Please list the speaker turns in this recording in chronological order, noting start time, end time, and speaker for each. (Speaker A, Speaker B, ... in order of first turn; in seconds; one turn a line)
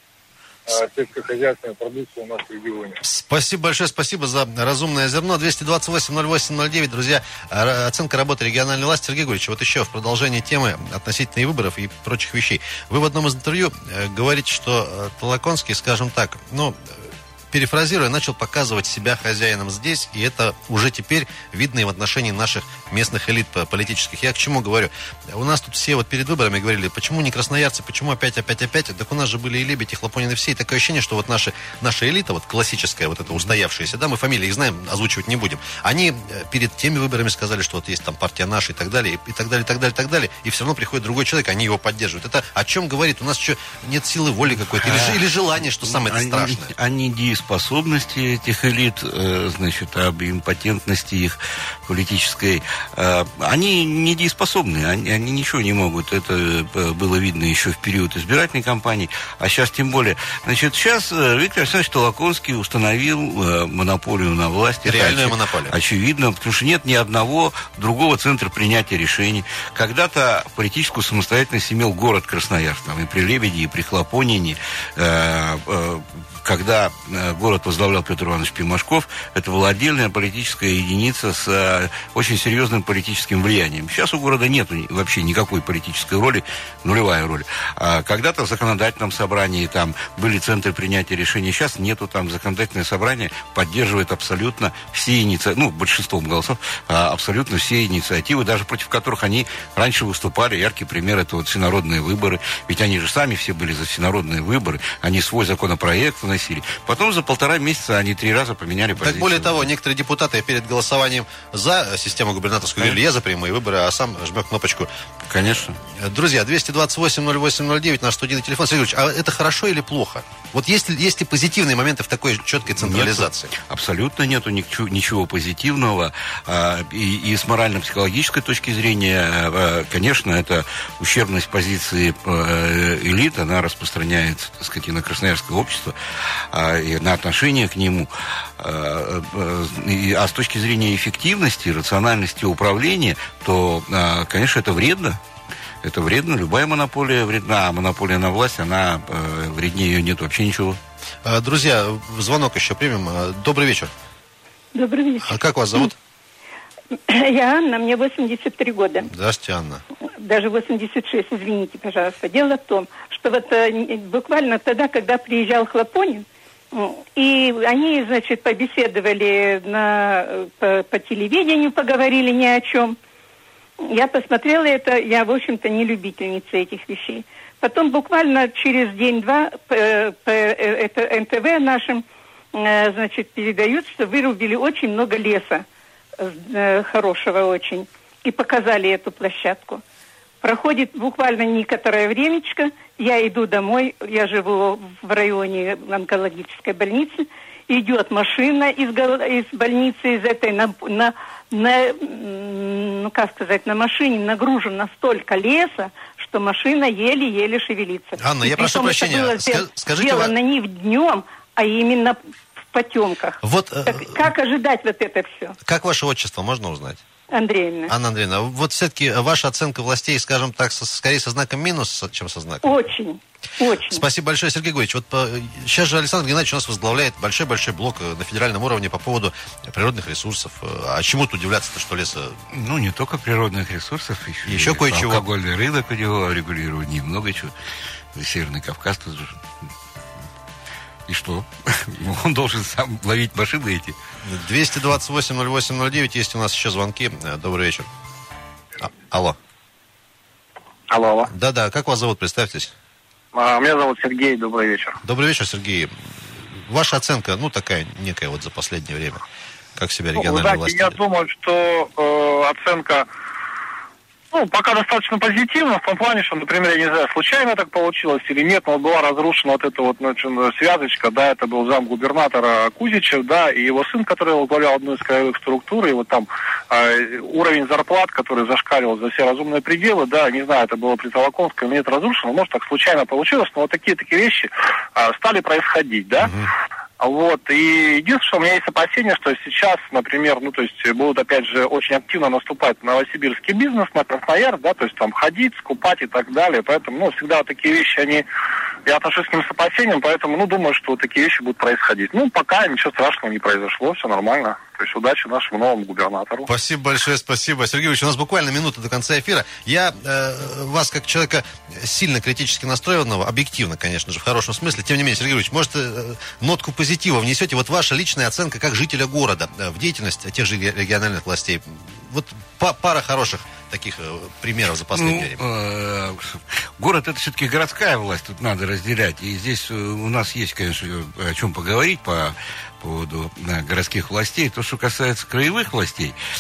Speaker A: 0.7-3.0
Speaker B: 3.0-46.7
Speaker C: 44.7-45.2
Speaker C: 45.8-109.7
Speaker B: 64.8-65.8
Speaker B: 109.0-114.9
Speaker C: 115.3-115.8
Speaker B: 116.0-123.5
Speaker C: 122.8-145.2
Speaker C: 145.8-150.8
Speaker B: 151.2-153.9
Speaker D: 154.8-155.9
Speaker B: 155.2-156.0
Speaker D: 157.1-159.1
Speaker B: 159.1-159.8
Speaker D: 160.2-173.0
Speaker D: 173.9-185.7
Speaker D: 186.2-189.8
Speaker D: 190.4-212.2
Speaker B: 208.2-210.3
Speaker D: 212.7-215.6
Speaker B: 213.4-214.3
Speaker B: 215.6-217.0
Speaker D: 217.3-217.9
Speaker B: 217.9-222.8
Speaker D: 222.6-224.0
Speaker B: 223.8-232.4
Speaker C: 232.5-237.5
Speaker B: 234.5-235.2
Speaker C: 238.2-239.4
Speaker C: 241.1-244.0
Speaker B: 244.2-247.9
Speaker B: 248.8-249.4
Speaker E: 250.9-251.3
Speaker B: 251.3-252.7
Speaker E: 253.3-255.0
Speaker B: 255.0-255.9
Speaker B: 256.5-259.2
Speaker B: 259.8-261.0
Speaker E: 260.1-263.1
Speaker E: 264.3-286.3
Speaker B: 286.2-286.5
Speaker E: 287.0-298.2
Speaker E: 298.9-306.5
Speaker B: 306.5-325.4
Speaker C: 324.9-336.1